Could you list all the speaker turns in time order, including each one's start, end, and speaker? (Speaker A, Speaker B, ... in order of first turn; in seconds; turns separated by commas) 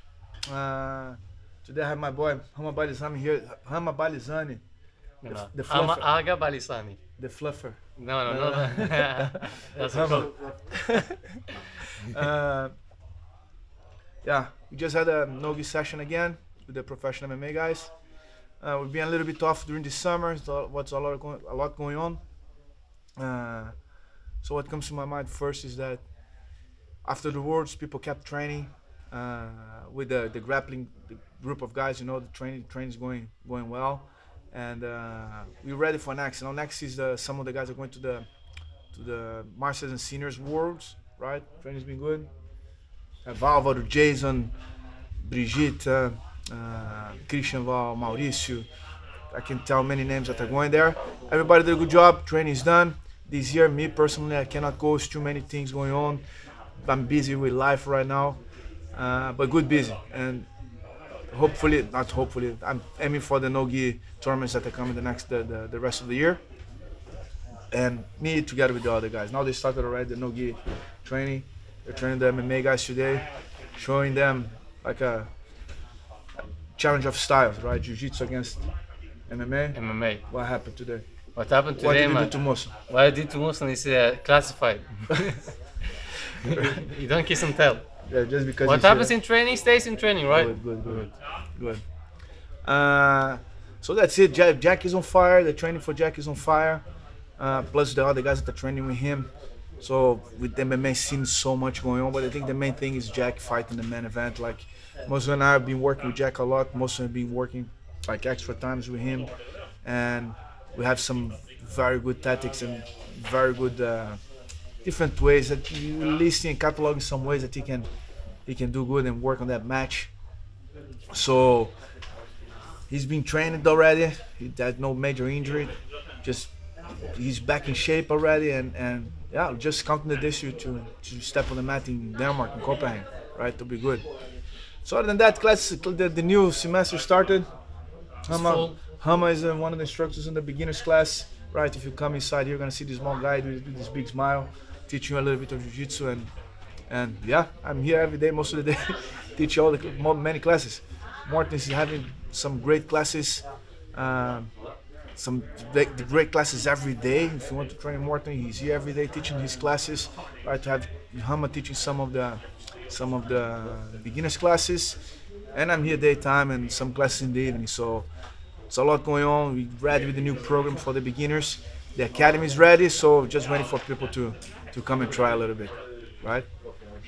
Speaker A: 0.5-4.6, Speaker B: 5.2-7.0, Speaker A: 5.3-6.1, Speaker A: 7.2-11.3, Speaker B: 8.0-10.3, Speaker A: 12.0-12.7, Speaker A: 14.2-18.0, Speaker A: 18.6-22.2, Speaker A: 23.2-23.8, Speaker A: 24.4-26.1, Speaker A: 27.0-38.3, Speaker A: 38.9-42.3, Speaker A: 43.2-44.5, Speaker A: 45.2-48.7, Speaker A: 49.3-56.2, Speaker A: 56.8-58.4, Speaker A: 58.9-60.5, Speaker A: 61.3-66.4, Speaker A: 67.7-75.3, Speaker A: 76.8-78.6, Speaker A: 79.3-81.0, Speaker B: 79.7-80.2, Speaker B: 81.3-85.6, Speaker A: 81.8-82.7, Speaker B: 86.4-87.8, Speaker A: 86.5-86.8, Speaker A: 88.1-89.1, Speaker B: 88.6-91.1, Speaker A: 90.3-91.8, Speaker A: 92.6-96.8, Speaker A: 97.4-109.3, Speaker A: 109.8-114.2, Speaker A: 114.8-117.9, Speaker A: 118.5-120.1, Speaker A: 121.1-121.7, Speaker A: 122.9-126.5, Speaker A: 127.1-134.0, Speaker A: 134.8-137.5, Speaker B: 138.3-138.7, Speaker A: 138.3-146.3, Speaker A: 146.9-154.5, Speaker A: 155.2-165.0, Speaker A: 165.5-168.1, Speaker A: 168.7-176.5